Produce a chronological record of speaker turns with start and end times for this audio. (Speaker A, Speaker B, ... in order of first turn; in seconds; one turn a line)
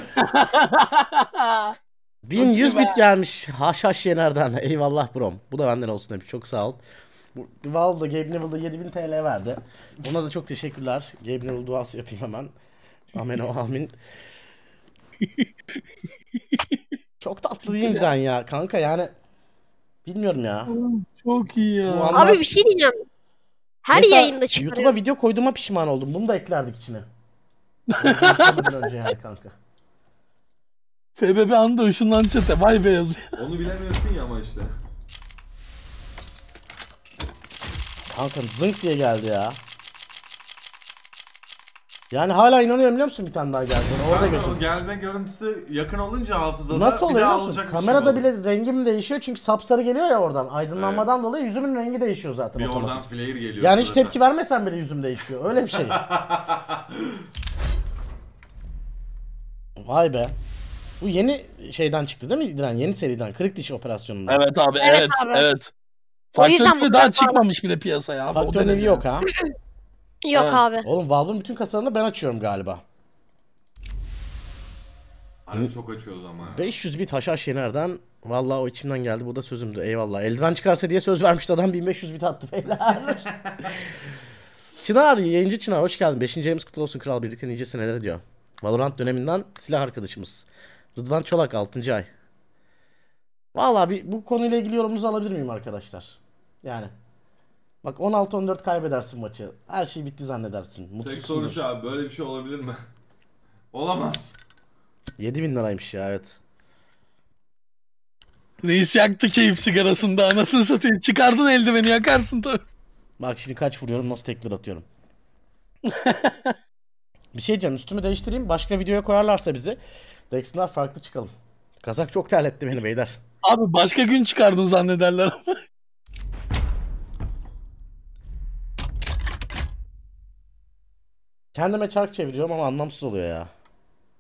Speaker A: 0.2-1.7
Speaker B: 2.2-6.8
Speaker A: 2.4-3.0
Speaker B: 7.3-12.5
Speaker B: 13.1-14.0
Speaker B: 17.2-19.1
Speaker A: 17.7-18.1
Speaker B: 20.1-20.7
Speaker A: 20.7-22.3
Speaker B: 21.8-22.4
Speaker C: 22.1-22.9
Speaker C: 23.9-25.0
Speaker B: 23.9-27.1
Speaker A: 27.9-28.7
Speaker B: 28.0-29.6
Speaker A: 31.2-33.4
Speaker D: 33.4-34.7
Speaker B: 38.1-39.6
Speaker B: 42.1-44.6
Speaker D: 44.1-48.2
Speaker B: 46.7-53.1
Speaker D: 50.8-51.1
Speaker D: 52.5-54.2
Speaker B: 53.6-56.0
Speaker D: 55.8-57.0
Speaker B: 59.8-60.4
Speaker B: 61.0-64.4
Speaker A: 64.3-65.7
Speaker C: 64.8-65.5
Speaker A: 66.3-69.0
Speaker C: 66.4-67.5
Speaker B: 68.3-69.3
Speaker C: 70.2-70.9
Speaker A: 70.3-70.6
Speaker B: 70.8-72.8
Speaker D: 75.5-76.7
Speaker B: 76.4-83.3
Speaker B: 84.8-92.1
Speaker B: 93.5-96.9
Speaker B: 97.8-101.6
Speaker D: 101.0-102.8
Speaker D: 103.7-104.4
Speaker B: 105.2-106.4
Speaker A: 108.6-112.6
Speaker B: 113.2-114.8
Speaker A: 116.0-116.5
Speaker B: 117.3-119.8
Speaker B: 120.3-123.2
Speaker A: 123.4-125.6
Speaker B: 131.5-133.5